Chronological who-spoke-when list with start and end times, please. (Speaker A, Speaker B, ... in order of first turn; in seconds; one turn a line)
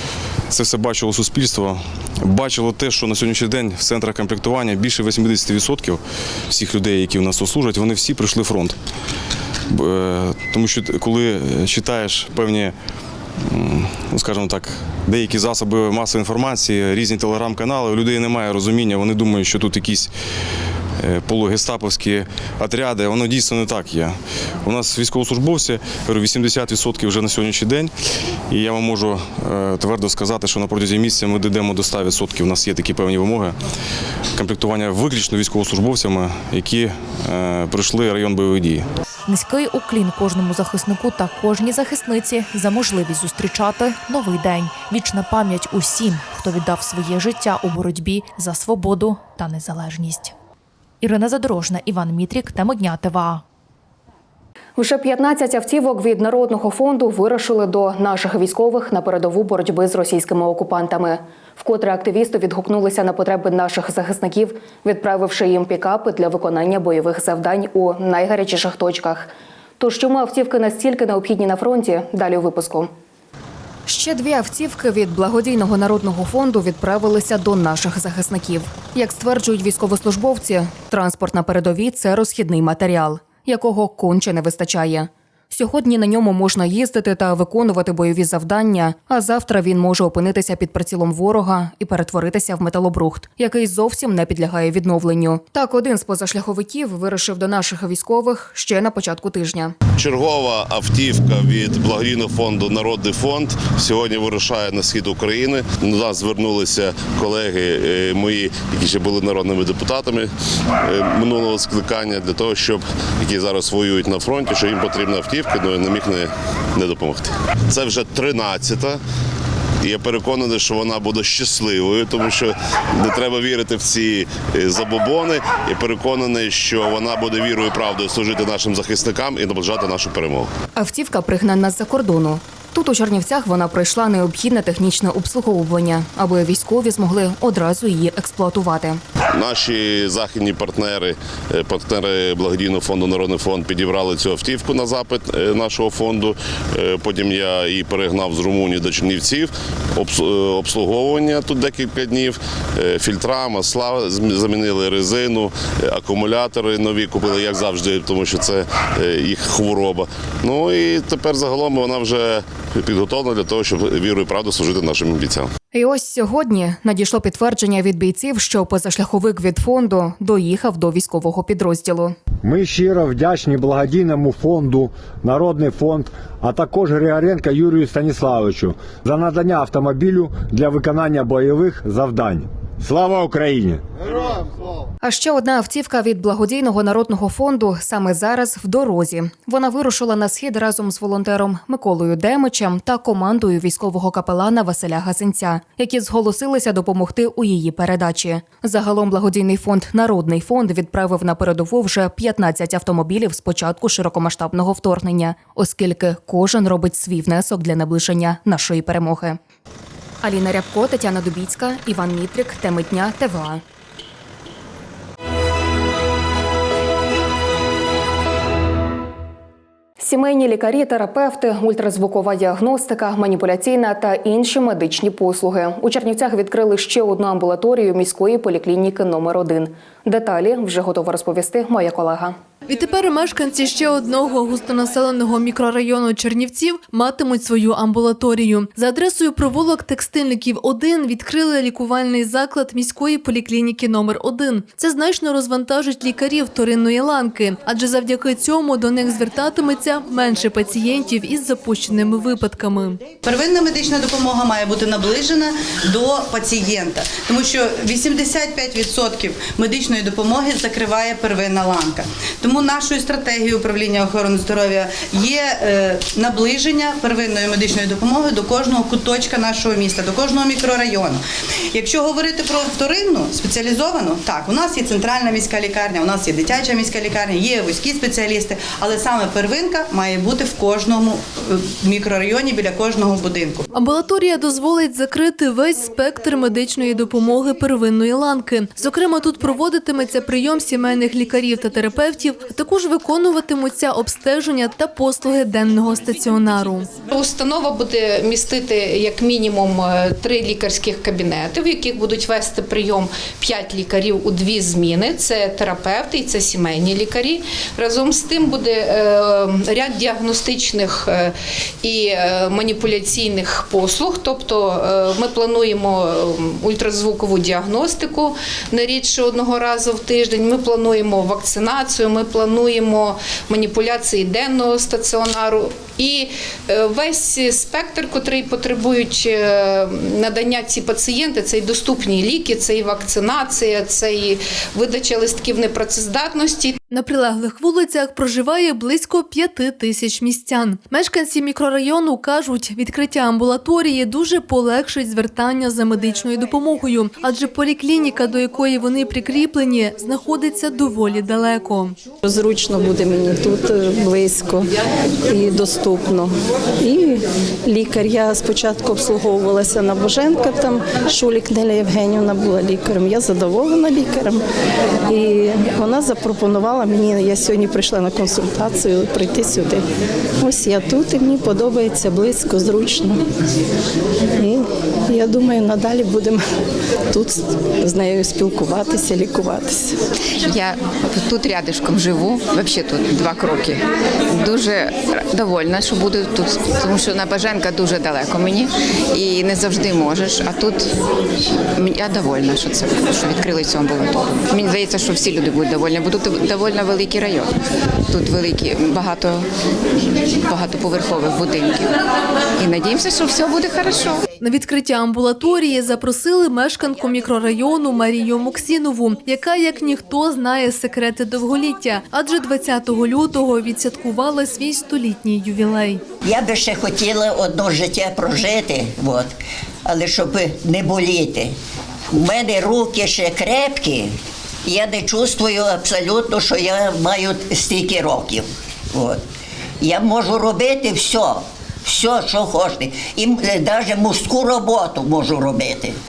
Speaker A: 0.5-8.8
Speaker A: 9.7-12.8
Speaker A: 13.5-20.1
Speaker A: 21.0-27.9
Speaker A: 28.5-33.6
Speaker A: 34.4-38.9
Speaker B: 39.2-50.3
Speaker B: 51.0-53.4
Speaker C: 54.8-72.9
Speaker C: 73.9-99.8
Speaker D: 100.0-110.3
Speaker D: 110.8-119.0
Speaker D: 119.8-130.5
Speaker C: 130.8-139.0
Speaker D: 139.3-165.5
Speaker C: 165.7-172.2
Speaker E: 172.4-183.8
Speaker C: 185.0-209.4
Speaker C: 210.2-213.6
Speaker C: 220.0-232.4
Speaker F: 232.7-253.0
Speaker G: 253.2-271.2
Speaker G: 271.8-283.6
Speaker F: 283.7-297.0
Speaker H: 297.1-336.8
Speaker F: 336.9-352.0
Speaker I: 352.2-354.7
Speaker I: 355.3-364.4
Speaker I: 365.1-369.8
Speaker I: 370.4-373.2
Speaker I: 374.4-376.4
Speaker I: 377.1-379.9
Speaker J: 380.5-383.8
Speaker J: 384.3-390.9
Speaker J: 391.8-397.5
Speaker J: 398.1-399.5
Speaker J: 400.4-401.9
Speaker J: 402.6-404.2
Speaker F: 404.4-416.0
Speaker K: 416.2-419.4
Speaker K: 419.9-421.5
Speaker K: 422.1-424.1
Speaker K: 424.6-429.2
Speaker K: 429.8-435.9